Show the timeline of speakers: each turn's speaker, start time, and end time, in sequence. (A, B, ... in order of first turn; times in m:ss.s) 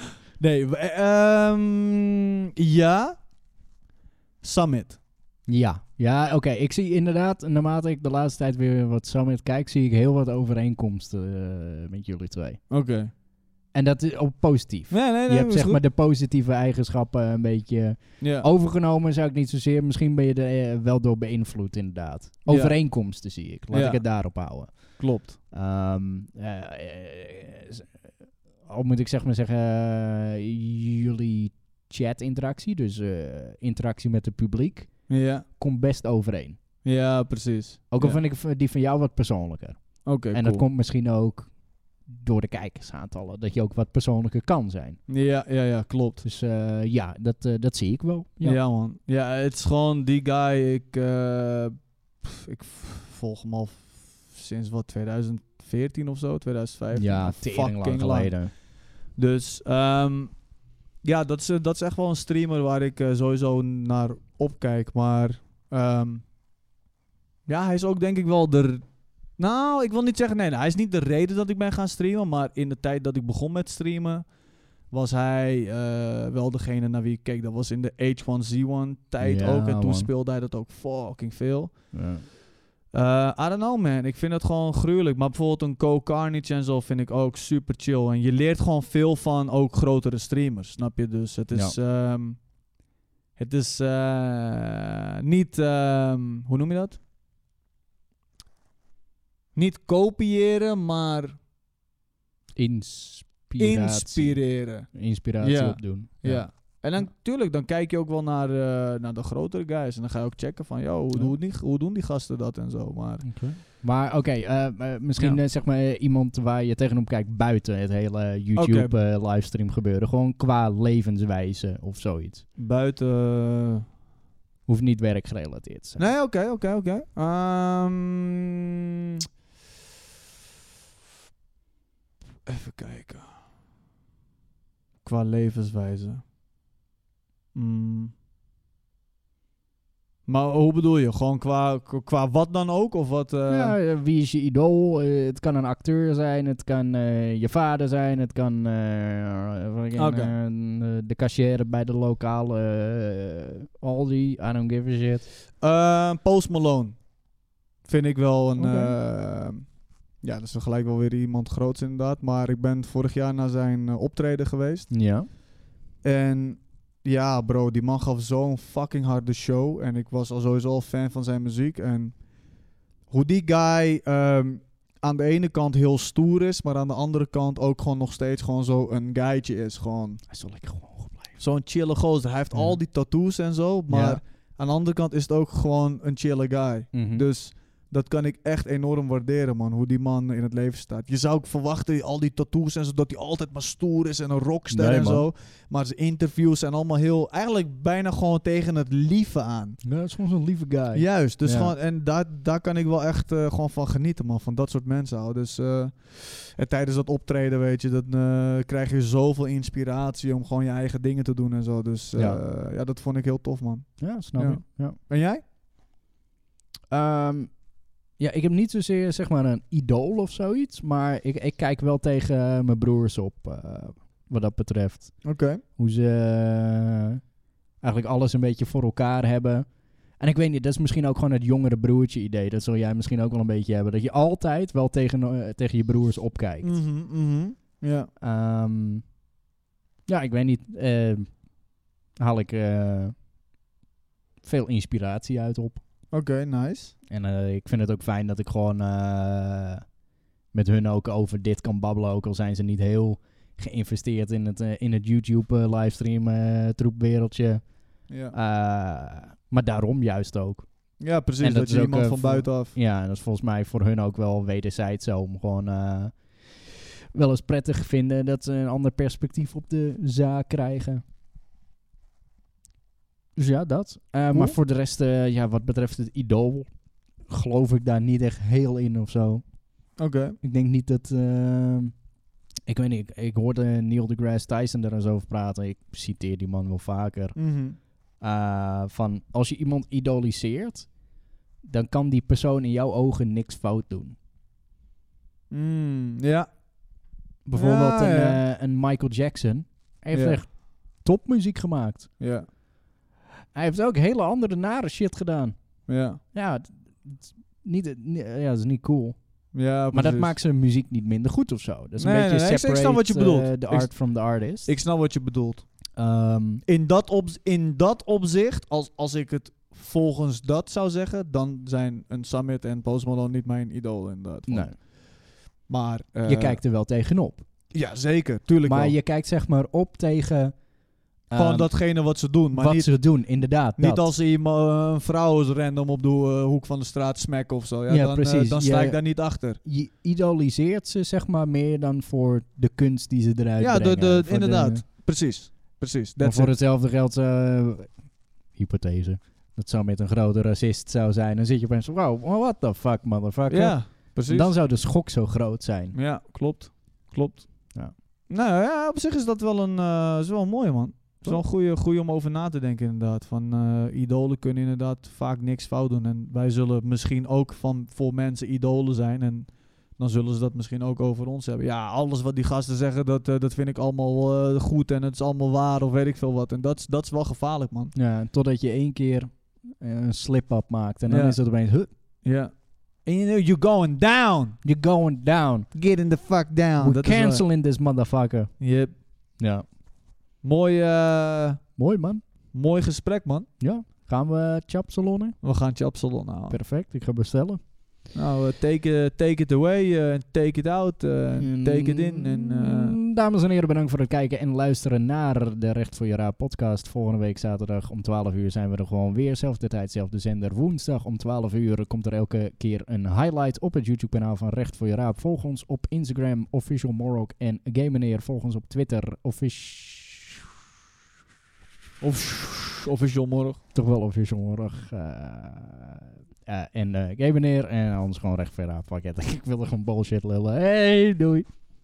0:00.4-0:03.2 A
0:04.4-0:05.0 A
0:05.5-0:12.6 B
0:12.7-0:13.1 A
0:13.7-0:27.9 B
0:14.9-0:15.8 A
0:18.2-0:18.5 A
0:22.5-0:25.4 A
0:28.6-0:36.6 B
0:35.1-0:35.5 A
0:36.8-0:38.2 A
0:37.9-0:45.0 B
0:40.0-0:40.7 A
0:45.1-0:46.2 A
0:46.2-0:48.6 B
0:48.4-1:00.4 A
0:56.9-0:58.5 B
1:01.0-1:06.2 A
1:07.5-1:14.3 A
1:14.9-1:22.1 A
1:19.2-1:20.1 B
1:21.9-1:22.2 B
1:22.9-1:32.5 A
1:33.4-1:37.0 A
1:39.6-1:41.4 A
1:42.6-1:47.1 B
1:43.6-1:53.5 A
1:53.2-2:02.4 B
1:58.6-1:59.0 A
2:02.6-2:03.8 A
2:04.7-2:06.1 B
2:06.0-2:08.7 A
2:12.5-2:13.3 A
2:15.0-2:16.2 A
2:17.5-2:18.1 A
2:20.3-2:23.8 A
2:23.5-2:35.3 B
2:30.0-2:30.3 A
2:35.6-2:37.1 A
2:37.8-2:44.9 A
2:38.6-2:39.0 B
2:44.9-2:45.3 B
2:46.0-3:00.2 A
3:00.3-3:01.4 B
3:01.4-3:19.8 A
3:02.5-3:02.8 B
3:03.9-3:04.2 B
3:06.9-3:07.3 B
3:14.7-3:15.3 B
3:19.8-3:21.7 B
3:20.9-3:35.4 A
3:32.2-3:32.4 B
3:34.0-3:35.0 B
3:36.9-3:47.2 B
3:45.2-3:45.6 A
3:47.8-3:56.8 B
3:56.6-3:58.1 A
3:58.2-3:59.1 B
4:00.1-4:01.6 B
4:02.2-4:03.2 B
4:04.4-4:05.8 B
4:06.1-4:06.9 A
4:07.1-4:09.8 B
4:10.5-4:26.6 B
4:18.1-4:18.4 A
4:21.0-4:22.8 A
4:27.1-4:31.0 B
4:33.4-4:36.7 B
4:34.3-4:34.6 A
4:37.2-4:42.0 B
4:40.0-4:40.4 A
4:42.7-4:51.1 B
4:47.4-4:47.8 A
4:51.6-4:54.2 B
4:55.5-4:58.4 A
4:57.4-5:02.2 B
5:00.1-5:00.4 A
5:02.2-5:02.5 A
5:03.5-5:14.7 B
5:05.9-5:06.2 A
5:09.5-5:10.4 A
5:12.0-5:15.7 A
5:16.0-5:16.6 B
5:16.6-5:25.0 A
5:24.5-5:24.8 B
5:25.7-5:26.6 A
5:26.2-5:27.4 B
5:27.7-5:29.0 A
5:28.6-5:30.6 B
5:31.3-5:31.8 B
5:31.4-5:39.6 A
5:32.5-5:34.1 B
5:37.9-5:44.8 B
5:43.6-5:46.5 A
5:46.2-5:56.0 B
5:53.5-5:54.6 A
5:55.9-6:17.9 A
6:18.0-6:21.9 B
6:21.1-6:21.4 A
6:22.2-6:24.6 A
6:24.6-6:25.7 B
6:25.7-6:27.5 A
6:26.8-6:28.5 B
6:28.6-6:28.9 A
6:29.4-6:29.6 B
6:30.4-6:31.7 A
6:31.8-6:32.2 B
6:32.5-6:33.5 A
6:33.6-6:35.4 B
6:35.4-6:36.6 A
6:36.5-6:37.6 B
6:38.1-6:43.0 A
6:41.4-7:00.4 B
7:02.0-7:03.6 A
7:03.7-7:11.5 B